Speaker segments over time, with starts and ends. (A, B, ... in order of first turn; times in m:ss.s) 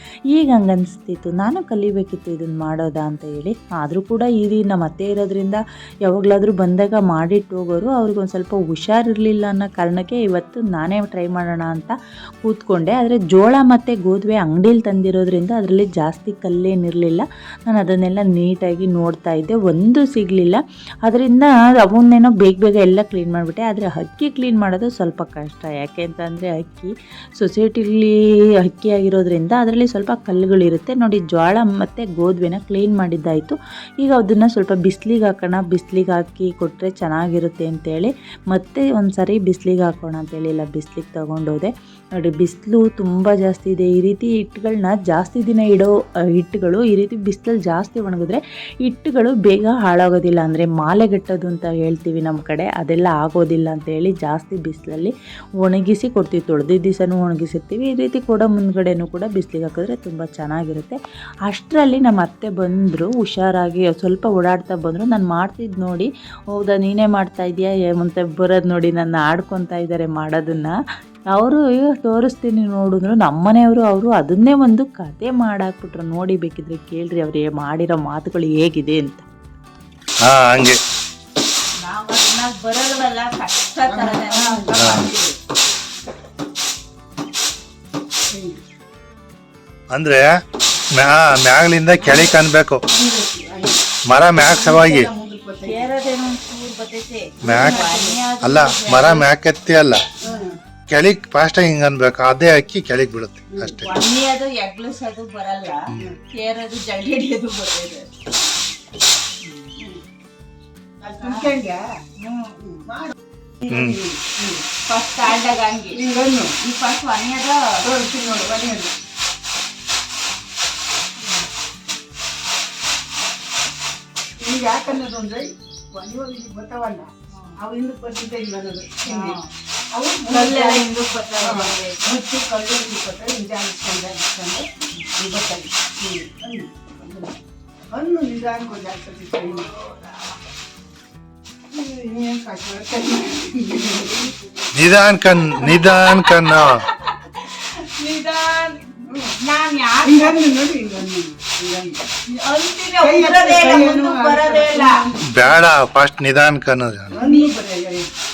0:00.3-1:10.8 A
1:11.3-1:19.2 A
1:20.2-1:20.8 B
1:21.8-1:25.3 C
1:23.9-1:25.1 D
1:24.8-1:25.0 B
1:28.3-1:28.6 D
1:29.9-1:30.4 B
1:30.9-1:32.8 B
1:32.0-1:32.3 D
1:32.9-1:33.8 D
1:34.1-1:35.1 B
1:34.3-1:35.8 D
1:35.6-1:39.2 C
1:37.4-1:37.8 B
1:37.4-1:38.2 D
1:38.4-1:40.0 B
1:40.2-1:40.6 D
1:40.9-1:43.9 B
1:43.5-1:43.8 D
1:43.8-1:48.1 C
1:49.8-1:50.0 D
1:51.0-1:51.7 C
1:51.0-1:51.8 D
1:52.2-1:52.5 C
1:52.6-1:54.6 D
1:53.7-1:54.0 B
1:54.8-1:56.0 C
1:55.9-1:56.6 D
1:56.6-1:57.8 C
1:57.8-1:58.9 D
2:04.4-2:09.4 D
2:09.1-2:09.5 C
2:09.9-2:10.9 D
2:10.3-2:12.0 C
2:11.4-2:17.4 D
2:17.9-2:19.7 D
2:19.6-2:20.3 C
2:21.7-2:24.6 D
2:24.7-2:26.8 B
2:25.5-2:30.4 C
2:29.1-2:29.3 D
2:30.0-2:32.1 D
2:32.2-2:35.0 C
2:33.0-2:35.6 D
2:35.2-2:37.1 B
2:37.1-2:38.1 D
2:37.1-2:37.5 C